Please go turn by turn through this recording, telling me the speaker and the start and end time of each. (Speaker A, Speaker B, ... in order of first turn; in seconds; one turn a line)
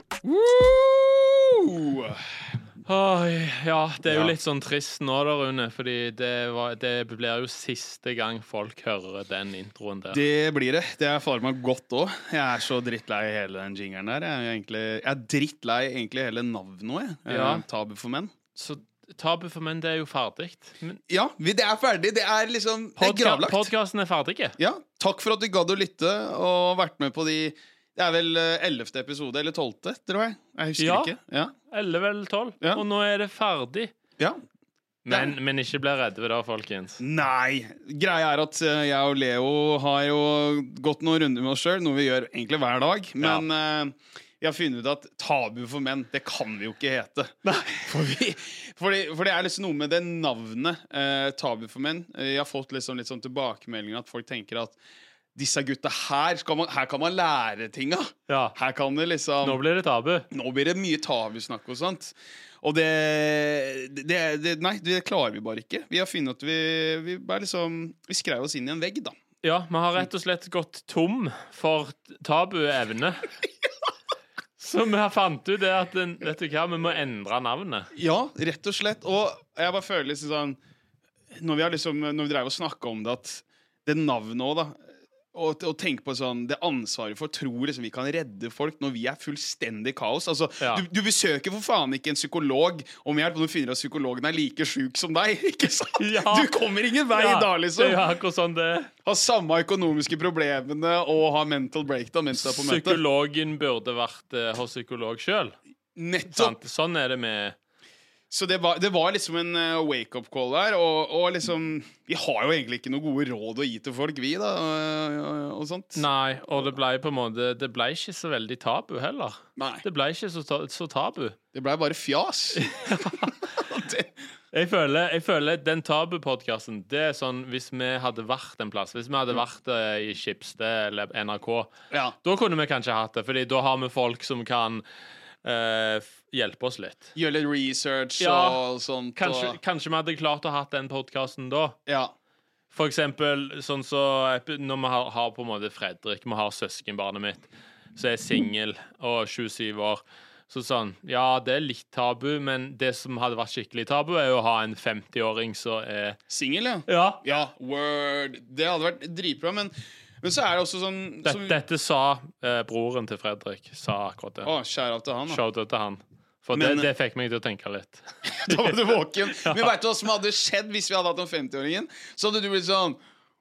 Speaker A: 0.2-2.2
Speaker B: 2.9-10.2
Speaker A: 4.1-4.3
Speaker A: 10.1-18.3
Speaker B: 17.3-17.6
Speaker B: 18.6-21.0
Speaker A: 21.1-23.7
Speaker B: 23.0-24.6
Speaker A: 24.6-31.5
Speaker B: 30.8-31.1
Speaker B: 31.7-33.9
Speaker B: 35.0-37.0
Speaker A: 35.1-35.4
Speaker A: 37.0-54.8
Speaker A: 55.4-59.6
Speaker B: 58.3-58.6
Speaker B: 59.4-60.3
Speaker A: 60.3-69.1
Speaker B: 69.4-73.3
Speaker B: 74.6-77.9
Speaker A: 77.9-80.6
Speaker A: 81.3-84.8
Speaker A: 85.3-98.0
Speaker B: 96.0-96.5
Speaker B: 97.1-98.9
Speaker A: 99.0-103.0
Speaker B: 102.4-105.6
Speaker A: 106.0-106.6
Speaker B: 106.3-107.6
Speaker A: 108.3-116.0
Speaker B: 116.0-121.4
Speaker A: 119.6-119.8
Speaker A: 121.5-124.1
Speaker B: 122.6-123.4
Speaker B: 124.5-131.7
Speaker A: 131.9-132.2
Speaker B: 132.2-134.8
Speaker B: 135.4-137.1
Speaker A: 137.2-139.6
Speaker B: 138.2-138.6
Speaker B: 139.2-141.8
Speaker A: 141.9-142.1
Speaker B: 142.7-147.4
Speaker B: 147.9-156.2
Speaker A: 156.3-161.6
Speaker B: 156.9-157.2
Speaker B: 161.2-164.5
Speaker A: 164.4-165.4
Speaker B: 165.3-169.7
Speaker A: 166.5-166.9
Speaker A: 168.3-173.0